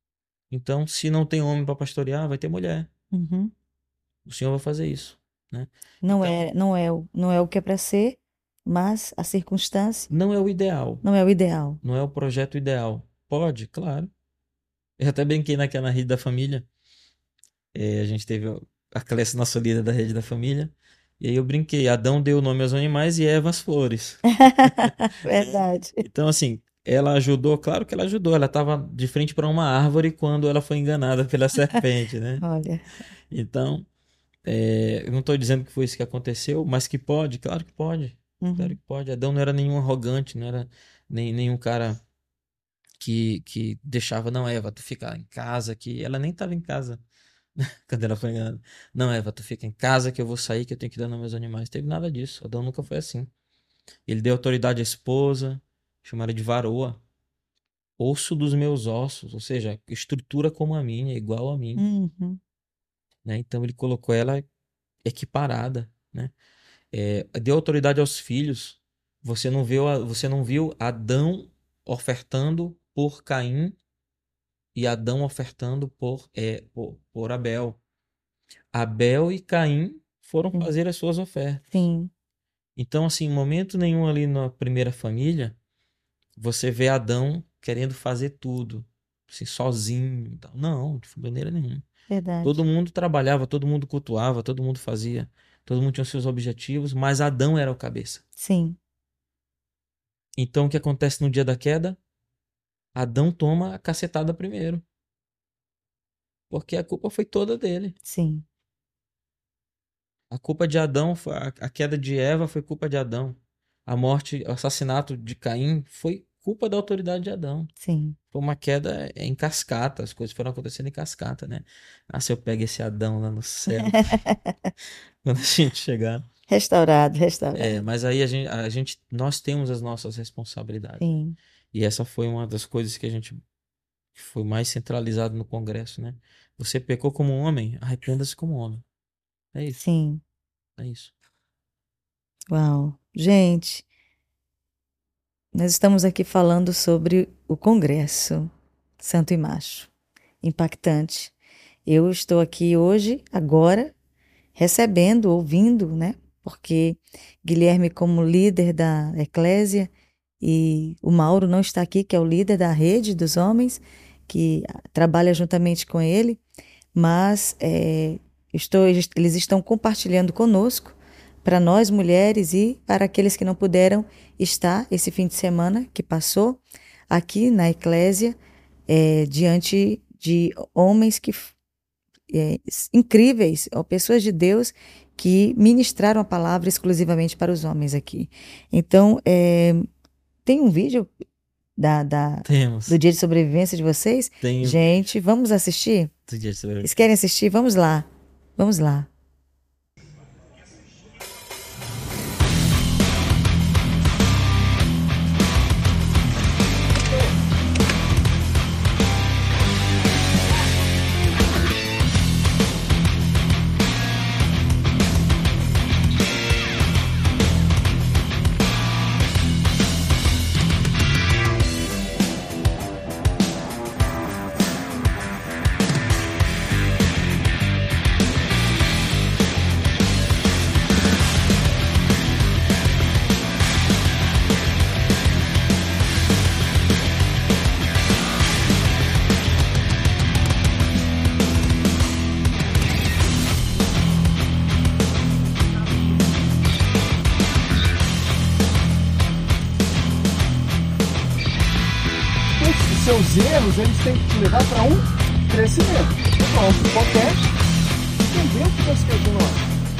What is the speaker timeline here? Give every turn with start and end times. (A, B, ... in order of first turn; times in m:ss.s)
0:00.5-0:02.9 A
0:03.1-0:03.5 B
0:04.3-0:06.4 A
0:06.0-0:10.1 B
0:10.1-0:11.0 A
0:11.0-0:11.8 B
0:11.8-0:14.1 A
0:15.0-0:16.7 A
0:17.7-0:32.4 A
0:24.3-0:26.0 B
0:32.4-0:32.9 B
0:33.3-0:33.9 A
0:34.4-0:42.0 A
0:38.4-0:38.8 B
0:43.0-0:47.0 A
0:47.6-0:53.3 A
0:54.1-0:57.0 A
0:58.0-1:01.8 A
1:01.8-1:02.4 B
1:03.2-1:04.4 A
1:05.0-1:06.3 A
1:06.9-1:13.8 A
1:14.7-1:17.8 A
1:18.7-1:21.8 A
1:21.7-1:22.1 B
1:22.8-1:25.6 A
1:26.4-1:31.8 A
1:32.1-1:32.6 B
1:32.4-1:38.2 A
1:38.4-1:38.8 B
1:40.4-1:42.0 A
1:43.0-1:44.8 A
1:46.5-1:48.0 A
1:48.0-1:48.4 B
1:50.3-1:57.7 A
1:57.8-1:58.2 B
1:58.3-2:04.2 A
2:03.9-2:04.7 B
2:05.2-2:06.3 A
2:06.5-2:07.8 B
2:07.6-2:11.0 A
2:11.0-2:11.4 B
2:11.7-2:13.4 A
2:14.2-2:18.8 A
2:19.5-2:19.8 A
2:19.8-2:20.2 B
2:20.8-2:21.1 A
2:22.5-2:23.8 B
2:25.6-2:29.9 B
2:30.4-2:31.3 B
2:31.9-2:33.9 B
2:34.6-2:39.9 B
2:40.4-2:46.4 B
2:47.0-2:58.4 B
2:58.9-3:01.6 B
3:02.3-3:09.9 B
3:10.4-3:11.1 B
3:11.8-3:16.1 B
3:12.4-3:13.0 A
3:14.4-3:14.8 A
3:16.3-3:17.0 A
3:16.8-3:19.1 B
4:12.6-4:17.4 C
4:18.3-4:19.6 C